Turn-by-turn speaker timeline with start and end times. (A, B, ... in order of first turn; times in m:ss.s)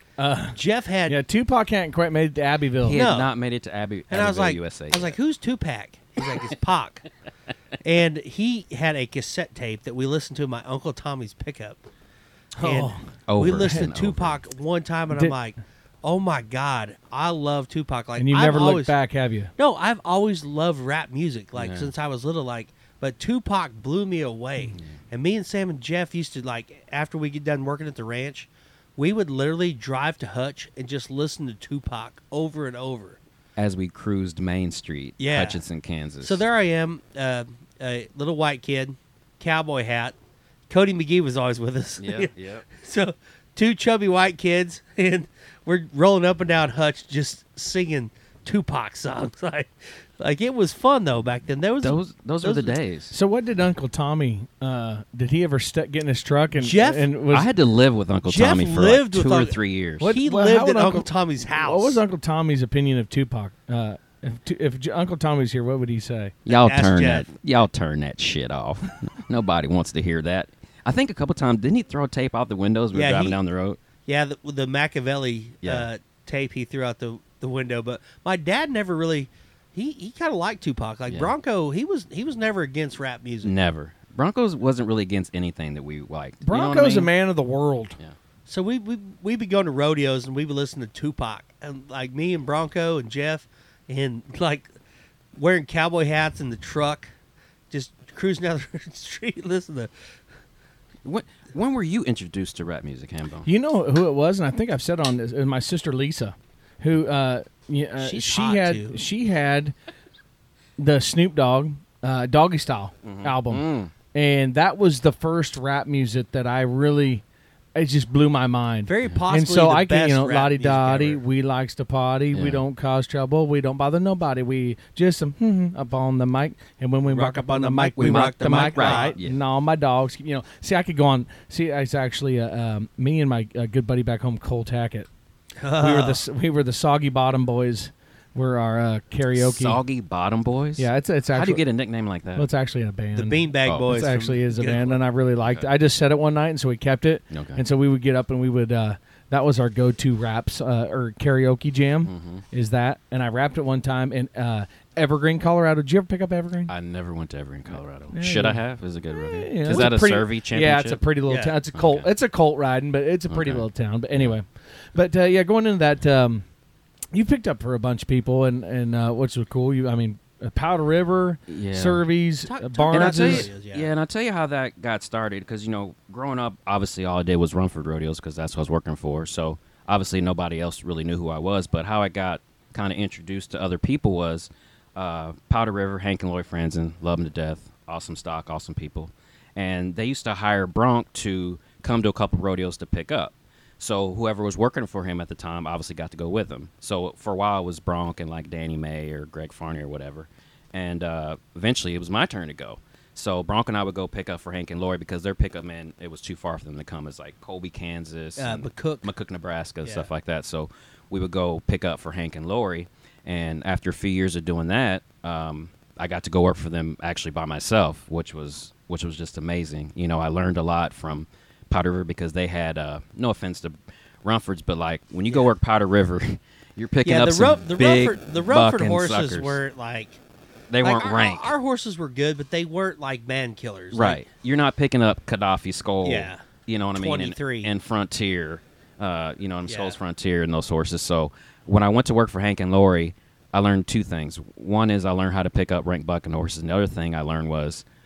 0:00.2-0:03.0 A
0:00.5-0:01.2 B
0:02.8-0:05.2 C
0:02.9-0:03.3 B
0:04.1-0:07.1 B
0:07.8-0:11.8 B
0:12.6-0:13.9 A
0:12.6-0:19.0 B
0:13.3-0:14.4 C
0:15.1-0:15.4 A
0:18.2-0:19.5 A
0:19.6-0:33.2 B
0:21.6-0:21.9 C
0:33.6-0:36.4 C
0:35.2-0:35.6 B
0:36.2-0:40.2 B
0:40.7-0:52.8 B
0:42.0-0:42.7 C
0:51.8-0:53.2 C
0:53.1-0:57.5 A
0:56.6-0:57.1 B
0:57.3-1:00.1 C
0:58.2-1:02.0 B
1:00.0-1:06.3 A
1:06.5-1:13.8 C
1:06.5-1:07.3 B
1:12.9-1:13.4 B
1:14.0-1:23.6 B
1:15.6-1:15.9 C
1:23.4-1:27.1 C
1:26.4-1:28.0 A
1:28.5-1:34.7 B
1:35.4-1:37.1 B
1:37.7-1:39.9 B
1:41.0-1:43.5 C
1:43.4-1:49.7 A
1:48.0-1:49.0 B
1:50.8-1:57.2 A
1:53.0-1:53.9 C
1:57.8-2:15.1 A
1:58.9-2:01.2 B
2:02.3-2:02.6 C
2:07.1-2:09.2 B
2:08.0-2:09.4 C
2:15.6-2:16.2 B
2:15.8-2:19.8 A
2:19.4-2:22.5 C
2:20.8-2:21.6 A
2:22.4-2:36.7 A
2:23.1-2:25.0 B
2:25.4-2:25.7 C
2:27.3-2:27.6 C
2:32.1-2:32.4 C
2:36.7-2:41.0 C
2:38.1-2:38.6 A
2:39.2-2:46.4 A
2:41.3-2:41.6 B
2:41.7-2:42.1 C
2:43.3-2:44.3 C
2:47.1-2:53.5 A
2:51.5-2:52.0 C
2:52.4-2:53.9 B
2:52.9-3:49.6 C
3:28.4-3:29.1 B
3:29.8-3:30.1 B
3:47.0-3:50.2 B
3:50.7-3:51.5 C
3:50.8-3:54.2 B
3:53.9-4:07.8 C
3:56.0-3:57.7 B
3:59.7-4:00.0 B